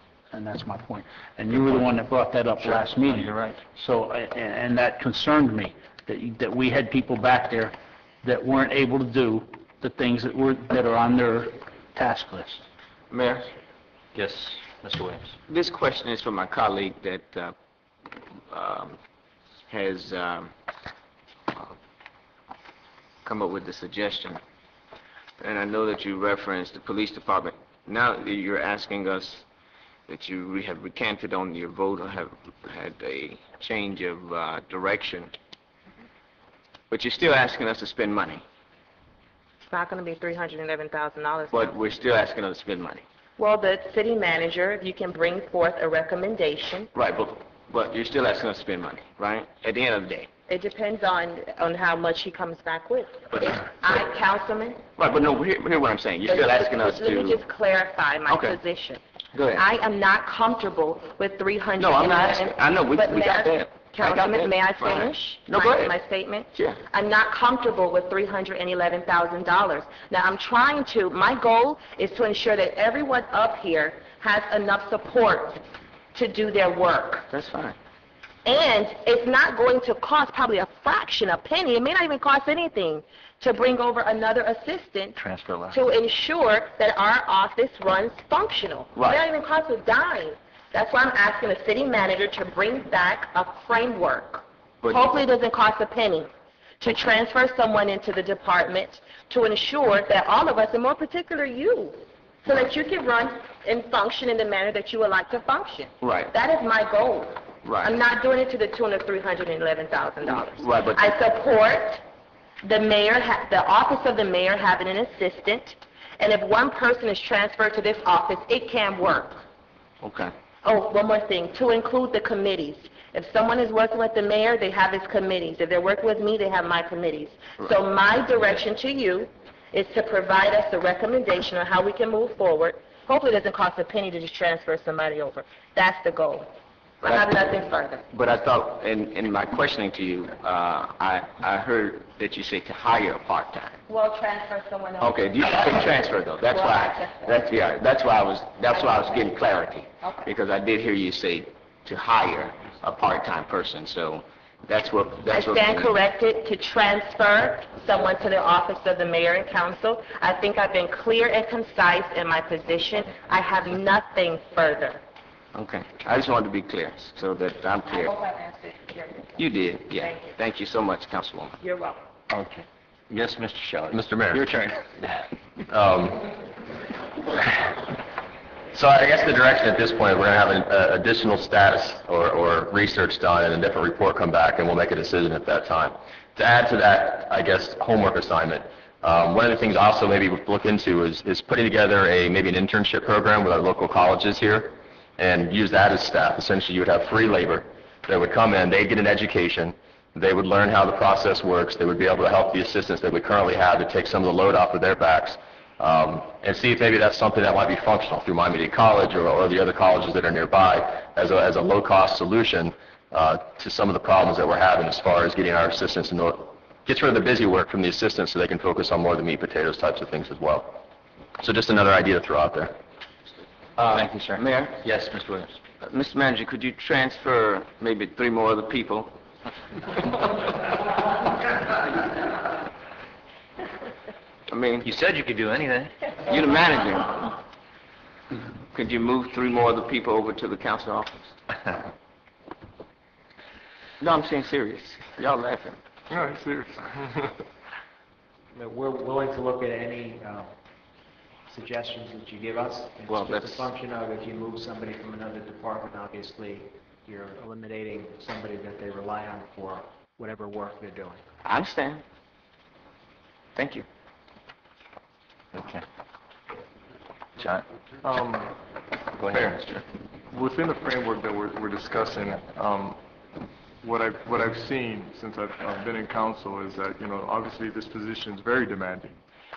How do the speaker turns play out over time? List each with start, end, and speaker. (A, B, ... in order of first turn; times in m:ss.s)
0:00.3-0:12.6 A
0:03.3-0:03.5 B
0:13.1-0:13.5 C
0:14.1-0:15.4 B
0:15.5-0:17.5 C
0:18.5-0:19.0 C
0:19.7-0:20.5 C
0:23.2-0:24.4 C
0:25.4-0:29.4 C
0:30.1-0:35.3 C
0:36.9-0:38.4 C
0:39.7-0:41.7 D
0:41.5-0:43.0 C
0:43.4-0:46.9 D
0:46.9-0:50.3 C
0:50.5-0:54.8 D
0:53.3-0:54.0 C
0:55.0-0:57.4 C
0:56.2-0:59.0 D
0:58.3-0:58.6 C
0:59.3-0:59.6 C
0:59.5-1:15.6 D
1:01.8-1:05.9 C
1:16.1-1:17.3 D
1:17.3-1:17.8 C
1:18.4-1:25.2 D
1:25.2-1:25.7 B
1:25.7-1:52.0 D
1:29.0-1:29.2 C
1:34.8-1:35.1 C
1:46.0-1:46.3 C
1:47.6-1:48.0 C
1:50.3-1:51.1 C
1:52.6-1:59.4 D
2:00.0-2:00.3 C
2:00.6-2:16.5 D
2:17.0-2:18.0 D
2:18.1-2:23.8 C
2:23.9-2:27.3 D
2:25.0-2:35.9 C
2:30.0-2:30.3 D
2:35.3-2:45.0 D
2:45.5-2:48.1 C
2:47.9-2:49.3 D
2:49.4-2:51.6 C
2:49.9-2:50.2 D
2:51.6-2:52.0 D
2:52.3-2:55.2 B
2:53.9-2:54.5 E
2:55.7-2:56.2 E
2:58.7-3:40.8 E
3:41.4-3:42.7 E
3:43.8-3:44.8 C
3:43.8-3:45.6 B
3:45.8-3:49.2 C
3:54.5-3:54.9 C
3:54.8-3:55.9 B
3:56.2-3:57.4 C
3:58.7-4:01.4 C
4:04.0-4:05.8 C
4:06.1-4:07.4 F
4:08.5-4:10.5 G
4:11.5-4:21.2 G
4:13.1-4:13.7 C
4:21.4-4:22.0 C
4:23.5-4:23.8 C
4:25.5-4:25.8 B
4:28.0-4:28.6 F
4:29.2-4:29.8 B
4:29.2-4:29.7 F
4:30.3-4:33.0 F
4:33.8-4:39.1 F